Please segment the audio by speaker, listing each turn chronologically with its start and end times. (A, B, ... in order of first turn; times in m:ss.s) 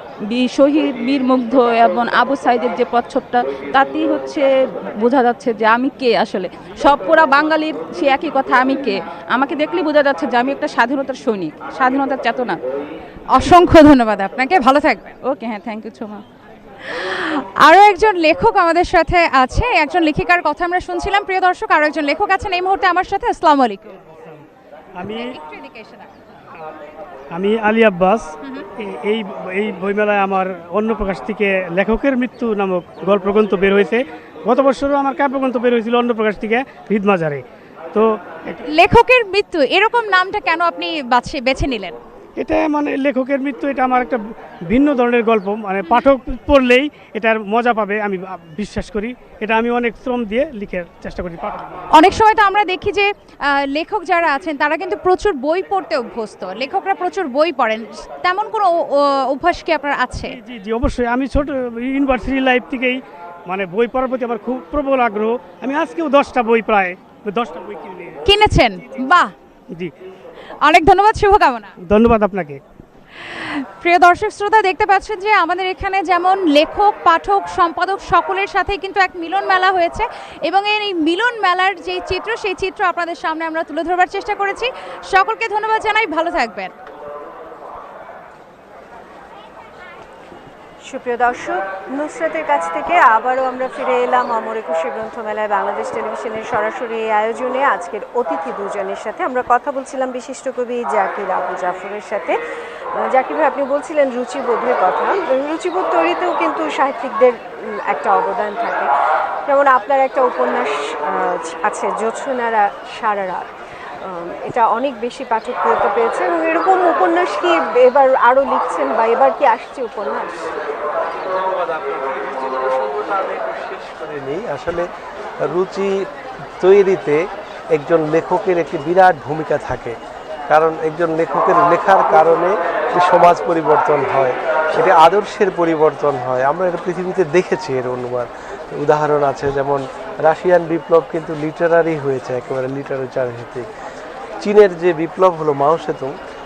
0:00.3-0:12.6 A
0:13.3-0:15.2 B
0:15.2-0:16.2 A
0:16.9-0:24.0 B
0:24.2-0:24.4 C
0:25.0-0:25.4 C
0:25.1-0:26.1 B
0:27.3-0:38.6 C
0:38.7-0:42.0 B
0:42.4-0:51.9 C
0:51.9-1:00.4 B
1:00.3-1:08.3 C
1:08.2-1:09.3 B
1:10.6-1:11.7 B
1:11.8-1:12.6 C
1:13.2-1:26.7 B
1:30.9-1:42.4 D
1:43.0-1:48.9 D
1:49.5-1:53.5 D
1:54.0-2:00.5 D
2:01.3-2:04.9 E
2:05.4-2:06.1 E
2:06.6-2:10.0 E
2:10.5-2:23.7 E
2:24.4-2:26.2 E